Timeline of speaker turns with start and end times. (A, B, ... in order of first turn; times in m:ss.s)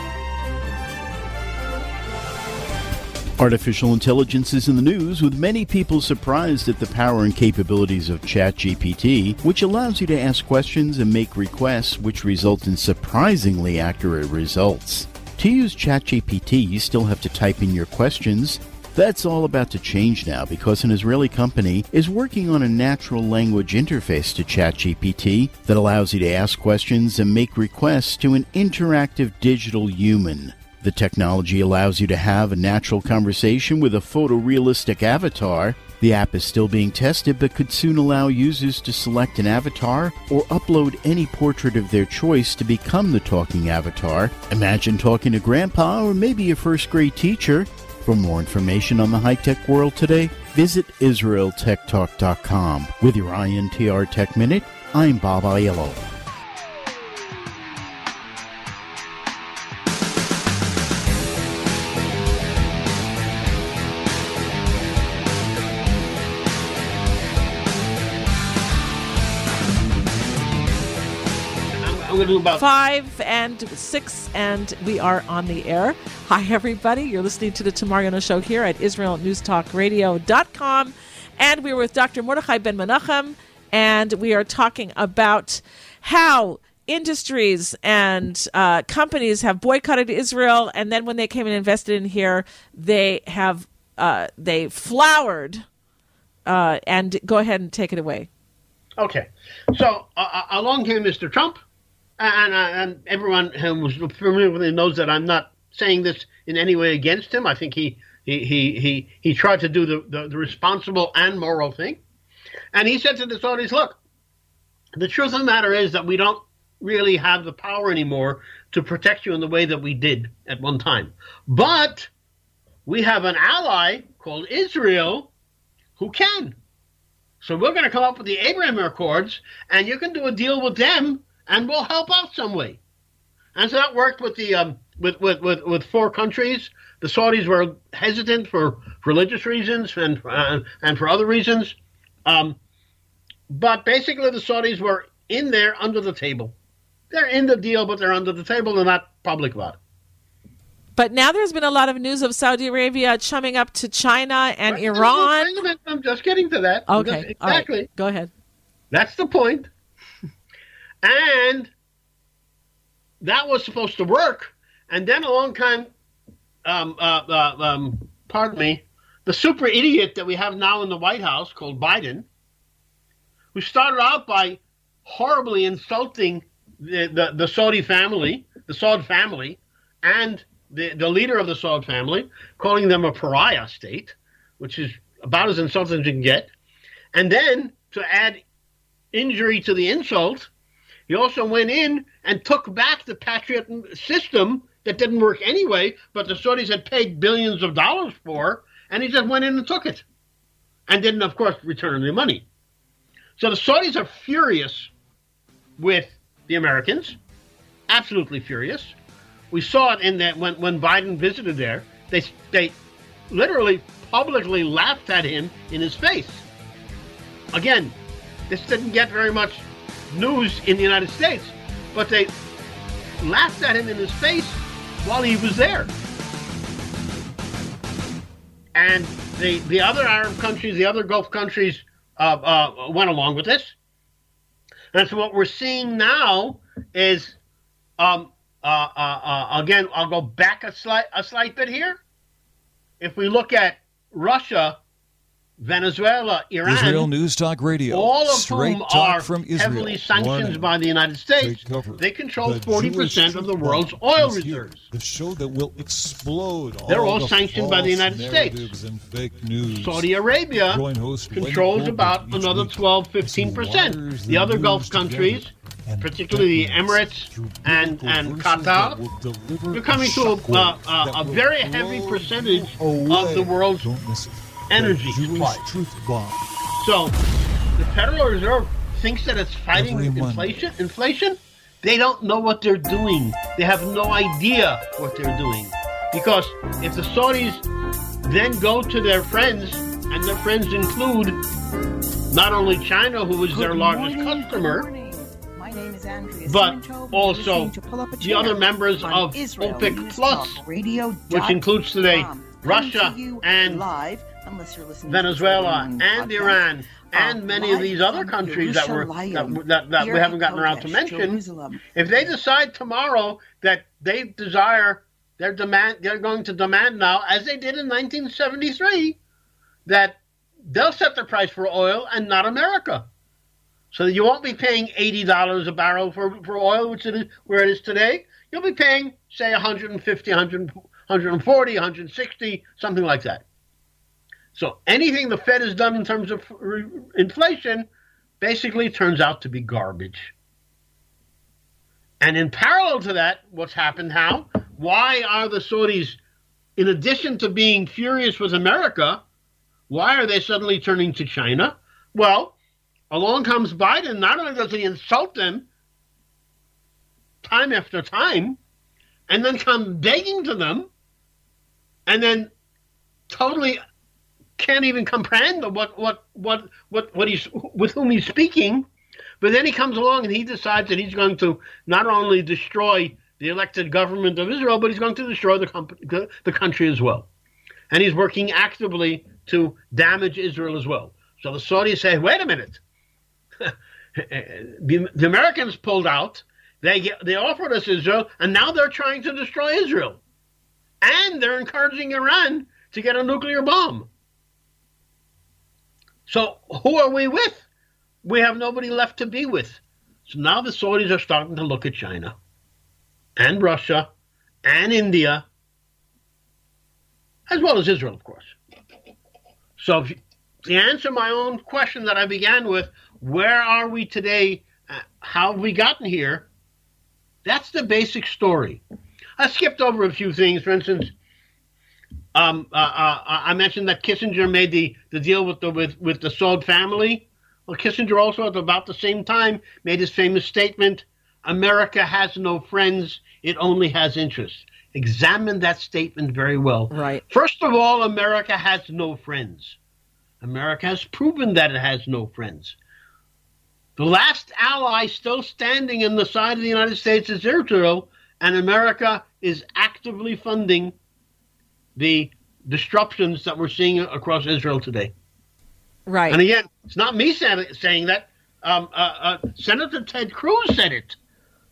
0:03.4-0:56.1 A
1:11.8-1:12.6 B
1:12.6-1:35.6 C
1:36.5-1:38.3 C
1:39.0-1:41.6 B
1:42.2-1:52.0 B
1:52.7-1:54.0 B
1:55.0-2:02.1 B
2:02.9-2:05.3 B
2:06.0-2:06.6 B
2:07.4-2:12.8 B
2:13.6-2:21.8 B
2:22.3-2:22.6 B
2:23.5-2:26.5 B
2:27.1-2:29.8 B
2:31.0-2:35.5 C
2:34.7-2:37.9 B
2:36.9-2:38.3 C
2:38.9-2:39.7 B
2:41.0-2:41.7 B
2:43.2-2:45.9 B
2:46.6-2:52.3 B
2:53.5-3:06.5 B
3:07.1-3:08.4 B
3:09.1-3:10.5 B
3:11.1-3:20.0 B
3:20.9-3:22.5 B
3:23.4-3:24.9 B
3:25.8-3:27.2 B
3:27.9-3:29.0 B
3:29.5-3:32.8 B
3:33.3-3:36.4 B
3:37.5-3:38.0 B
3:38.5-3:42.3 B
3:43.2-3:45.9 B
3:48.8-3:53.8 B
3:54.9-3:57.4 B
3:58.0-4:02.0 B
4:03.0-4:04.8 B
4:05.6-4:07.1 B
4:06.6-4:10.7 D
4:07.9-4:14.9 B
4:11.4-4:20.1 D
4:16.9-4:18.7 B
4:19.7-4:29.0 B
4:20.6-4:36.4 D
4:29.7-4:33.9 B
4:34.7-4:35.7 B
4:36.8-4:37.2 B
4:37.8-4:47.6 B
4:39.7-4:40.7 D
4:48.2-4:51.4 B
4:52.3-4:54.9 B
4:53.5-5:12.3 E
4:56.5-5:00.6 B
5:01.3-5:03.8 B
5:05.0-5:11.4 B
5:11.9-5:19.2 B
5:19.9-5:23.1 B
5:23.9-5:33.4 B
5:34.6-5:37.9 B
5:38.4-5:40.3 B
5:42.2-5:46.2 B
5:46.8-5:49.2 B
5:49.9-5:52.6 B
5:53.1-5:55.7 B
5:57.4-5:58.6 B
5:59.3-6:00.9 B
6:02.1-6:02.5 B
6:03.3-6:03.8 B
6:04.6-6:08.9 B
6:09.4-6:17.3 B
6:17.9-6:22.8 B
6:23.6-6:30.2 B
6:31.0-6:34.1 B
6:36.3-6:37.6 B
6:38.2-6:42.3 B
6:43.4-6:44.1 B
6:44.6-6:45.4 B
6:47.5-6:48.6 B
6:49.8-6:56.5 B
6:57.4-6:58.8 B
6:59.4-7:01.1 B
7:02.4-7:19.8 B
7:16.9-7:17.2 C
7:20.4-7:22.8 B
7:24.0-7:30.9 B
7:32.0-7:35.1 B
7:36.1-7:36.4 C
7:36.3-7:41.2 B